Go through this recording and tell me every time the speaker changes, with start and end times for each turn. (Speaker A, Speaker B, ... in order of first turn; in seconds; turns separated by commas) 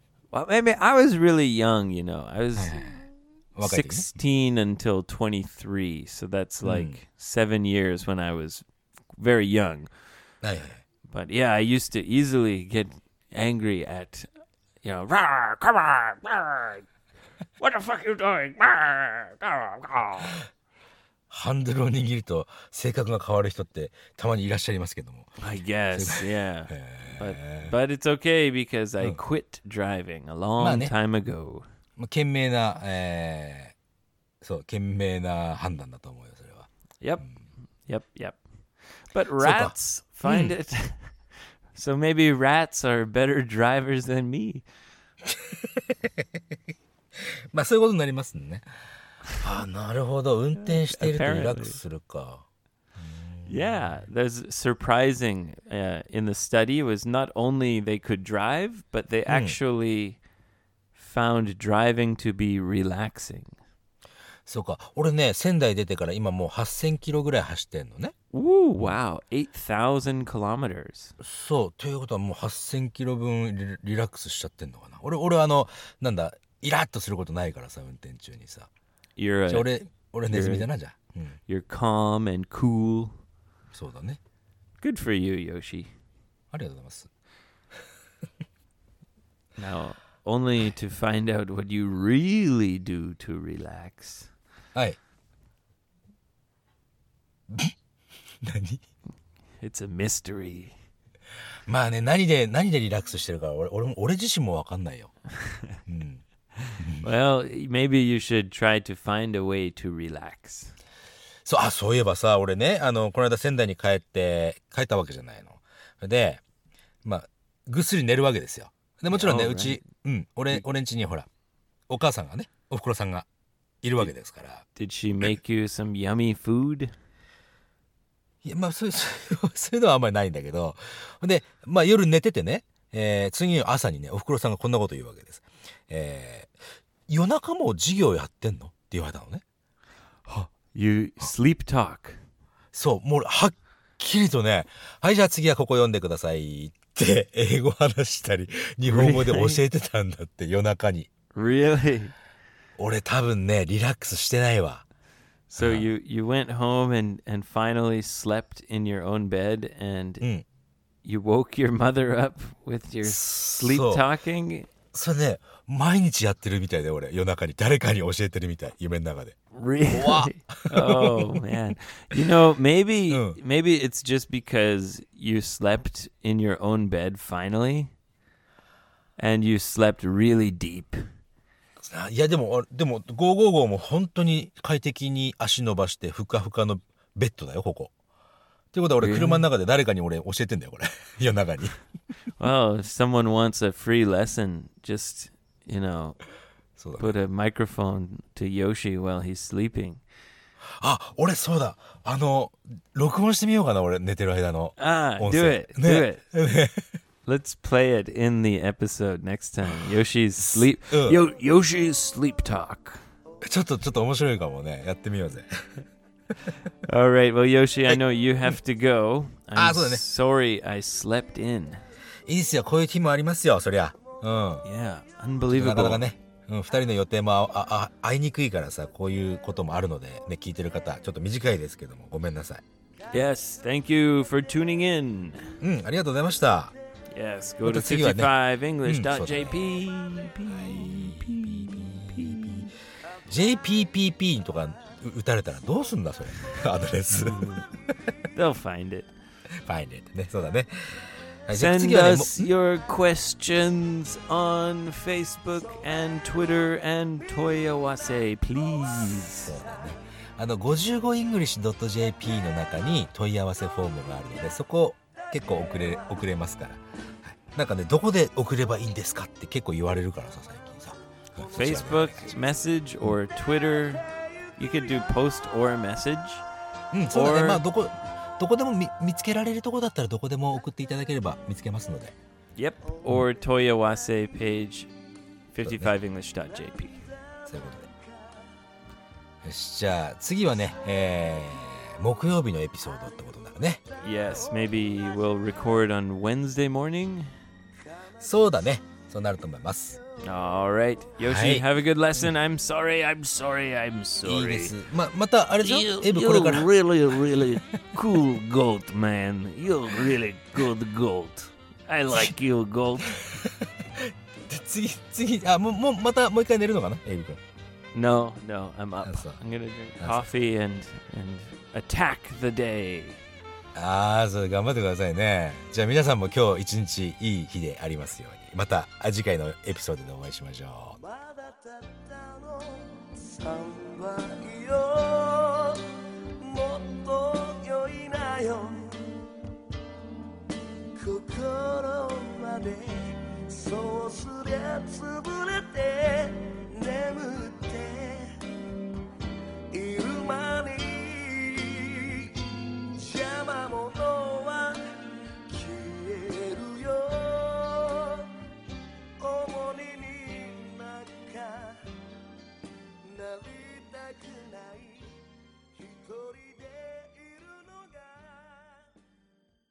Speaker A: 0.3-8.6, Speaker B: 2.5-3.0, Speaker B: 3.6-4.0, Speaker B: 6.6-7.0, Speaker A: 9.2-9.9, Speaker B: 10.4-10.8, Speaker A: 11.1-14.3, Speaker A: 14.8-16.8, Speaker A: 17.6-20.4, Speaker B: 21.3-25.3, Speaker A: 25.4-31.6, Speaker B: 25.9-27.7, Speaker B: 30.6-30.9, Speaker B: 32.0-33.7, Speaker B: 34.4-36.7, Speaker A: 37.0-37.3, Speaker A: 37.9-38.4, Speaker A: 39.0-41.1, Speaker B: 39.4-39.7, Speaker B: 40.2-40.5, Speaker A: 41.7-44.6, Speaker B: 45.2-46.4, Speaker B: 47.2-48.6, Speaker B: 49.4-52.4, Speaker A: 50.6-51.8, Speaker B: 53.0-53.8, Speaker A: 53.5-60.2, Speaker B: 59.3-59.5, Speaker A: 60.9-63.6, Speaker B: 64.5-68.1, Speaker A: 68.3-71.2, Speaker B: 71.2-78.7, Speaker A: 79.2-79.7, Speaker B: 79.5-81.4, Speaker A: 80.3-80.7, Speaker A: 81.5-83.1, Speaker B: 83.7-84.2, Speaker A: 84.8-85.9, Speaker B: 86.5-87.1, Speaker A: 89.6-94.3, Speaker B: 94.7-95.0, Speaker B: 98.4-98.8, Speaker A: 99.6-100.7, Speaker B: 101.7-105.1, Speaker B: 105.8-106.2, Speaker A: 106.7-110.7, Speaker B: 106.8-107.0, Speaker B: 111.4-116.4, Speaker B: 117.0-121.3, Speaker A: 119.1-119.8, Speaker B: 121.9-123.3, Speaker B: 123.8-124.6, Speaker A: 124.8-126.9, Speaker B: 128.4-136.5, Speaker B: 137.1-139.4, Speaker A: 140.7-142.2, Speaker B: 142.7-151.1, Speaker A: 148.8-149.6, Speaker A: 151.3-152.1, Speaker B: 152.8-154.8, Speaker A: 155.5-160.2, Speaker B: 155.6-155.8, Speaker A: 161.0-164.7, Speaker B: 163.0-164.0, Speaker B: 164.9-169.3, Speaker A: 169.5-177.9, Speaker B: 169.9-171.4, Speaker B: 173.1-173.4, Speaker A: 179.2-181.0, Speaker B: 181.8-187.9, Speaker B: 188.7-191.8, Speaker A: 189.0-189.4, Speaker A: 192.4-196.2, Speaker B: 196.8-197.1, Speaker A: 197.0-200.0, Speaker B: 200.8-206.8, Speaker A: 204.8-206.2, Speaker A: 207.2-213.0, Speaker B: 209.6-211.2, Speaker B: 213.4-215.8, Speaker A: 216.8-221.8, Speaker B: 217.9-218.6, Speaker B: 219.5-220.0, Speaker B: 222.3-224.6, Speaker A: 224.6-226.0, Speaker B: 225.5-232.6, Speaker A: 233.1-235.6, Speaker B: 235.6-236.7, Speaker A: 237.1-242.7, Speaker B: 237.6-238.3, Speaker B: 238.8-239.8, Speaker B: 240.5-242.7, Speaker B: 243.3-247.6, Speaker A: 247.1-247.7, Speaker A: 248.3-249.1, Speaker B: 249.6-252.5, Speaker A: 251.5-259.6, Speaker B: 259.4-272.3, Speaker A: 271.5-276.4, Speaker B: 276.9-282.1, Speaker A: 277.1-277.6, Speaker A: 282.6-284.9, Speaker A: 285.5-287.0, Speaker B: 285.6-285.9, Speaker C: 286.8-287.9, Speaker B: 287.5-287.9, Speaker B: 289.4-293.8, Speaker A: 294.0-297.3, Speaker C: 294.3-294.9, Speaker B: 298.2-300.0, Speaker A: 300.2-304.8, Speaker B: 301.2-301.6, Speaker B: 304.2-306.7, Speaker A: 305.6-313.2, Speaker B: 313.1-317.4, Speaker A: 317.9-323.2, Speaker B: 319.0-319.4, Speaker B: 320.0-320.2, Speaker B: 323.7-331.0, Speaker C: 331.0-339.3, Speaker C: 341.0-348.4, Speaker C: 349.7-354.9, Speaker C: 355.5-358.3, Speaker C: 359.2-361.9, Speaker C: 363.0-365.2, Speaker C: 365.7-368.9